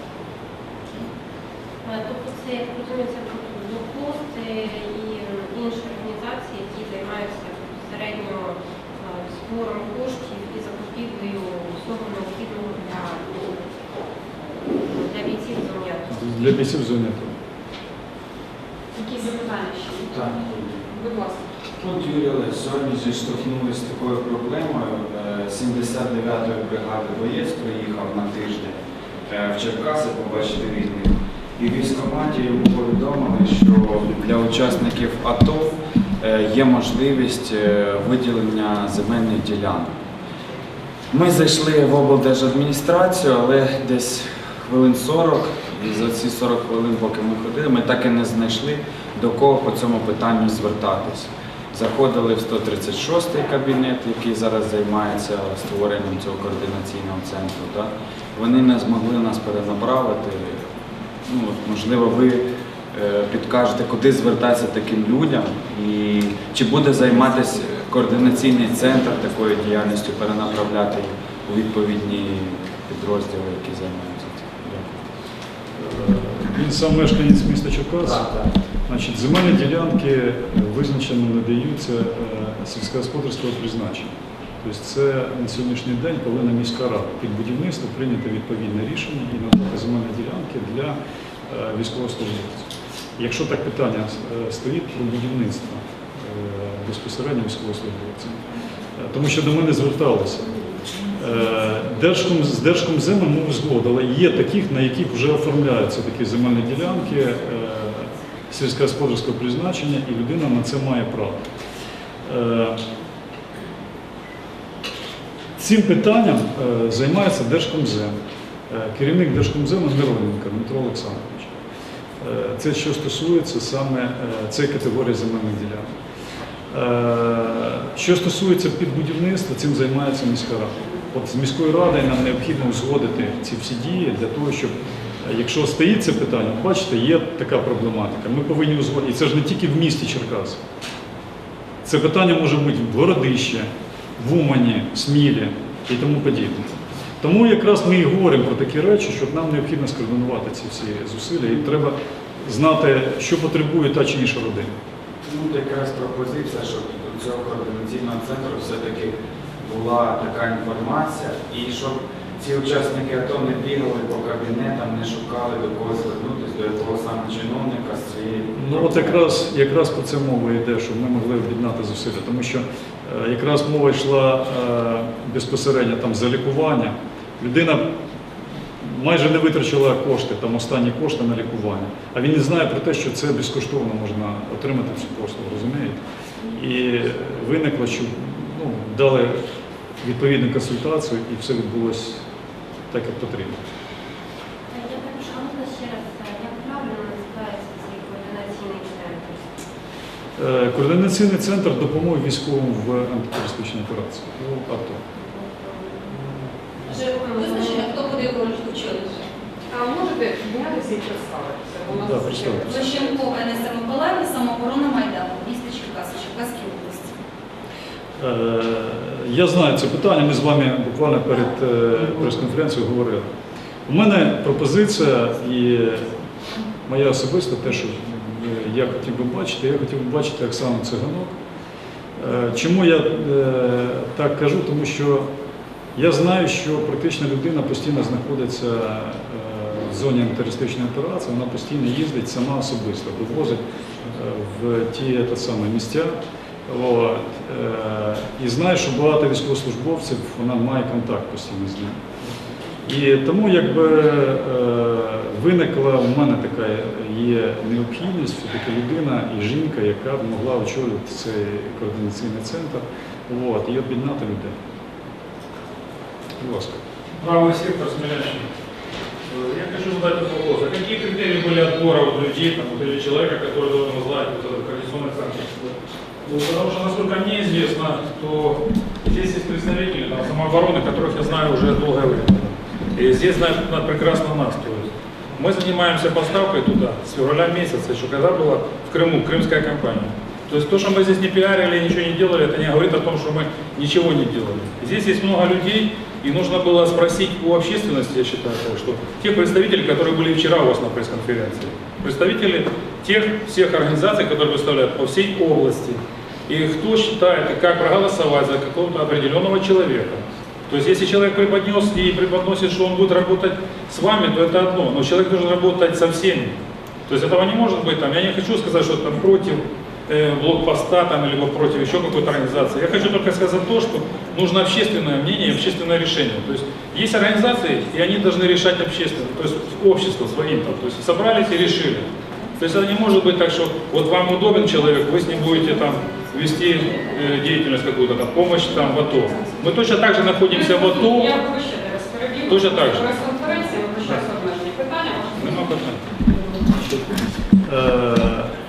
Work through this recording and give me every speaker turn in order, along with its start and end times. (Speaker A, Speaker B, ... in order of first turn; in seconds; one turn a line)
Speaker A: 1.9-13.7
Speaker A: 14.7-16.1
Speaker B: 16.1-17.3
Speaker C: 18.9-20.2
Speaker D: 20.1-20.9
Speaker C: 20.9-21.4
Speaker D: 21.8-28.8
Speaker D: 29.3-40.0
Speaker D: 41.1-60.7
Speaker D: 61.3-75.0
Speaker B: 75.8-78.3
Speaker D: 78.0-78.5
Speaker B: 78.9-91.0
Speaker B: 91.5-98.4
Speaker B: 99.0-100.5
Speaker B: 101.2-111.4
Speaker B: 112.3-112.8
Speaker B: 115.6-118.2
Speaker B: 118.7-121.5
Speaker B: 122.2-125.9
Speaker B: 126.7-140.6
Speaker B: 141.8-154.8
Speaker D: 155.2-169.2
Speaker B: 168.6-177.8
Speaker B: 178.8-189.4
Speaker B: 190.0-192.2
Speaker B: 192.9-193.6
Speaker A: 194.7-199.4
Speaker B: 200.4-205.0
Speaker A: 205.2-206.3
Speaker E: 206.9-209.3
Speaker A: 207.1-208.2
Speaker C: 209.7-213.6
Speaker B: 211.9-212.7
Speaker E: 212.7-217.2
Speaker B: 218.2-223.3
Speaker B: 223.9-226.1
Speaker B: 226.9-231.4
Speaker B: 232.2-235.3
Speaker B: 236.0-246.2
Speaker B: 246.7-252.0
Speaker B: 252.9-264.6
Speaker B: 266.4-266.8
Speaker F: 267.2-268.5
Speaker F: 269.3-316.6
Speaker F: 317.1-332.1
Speaker F: 332.6-341.4
Speaker C: 340.5-345.7
Speaker F: 342.5-343.1
Speaker F: 345.4-346.1
Speaker B: 347.6-348.5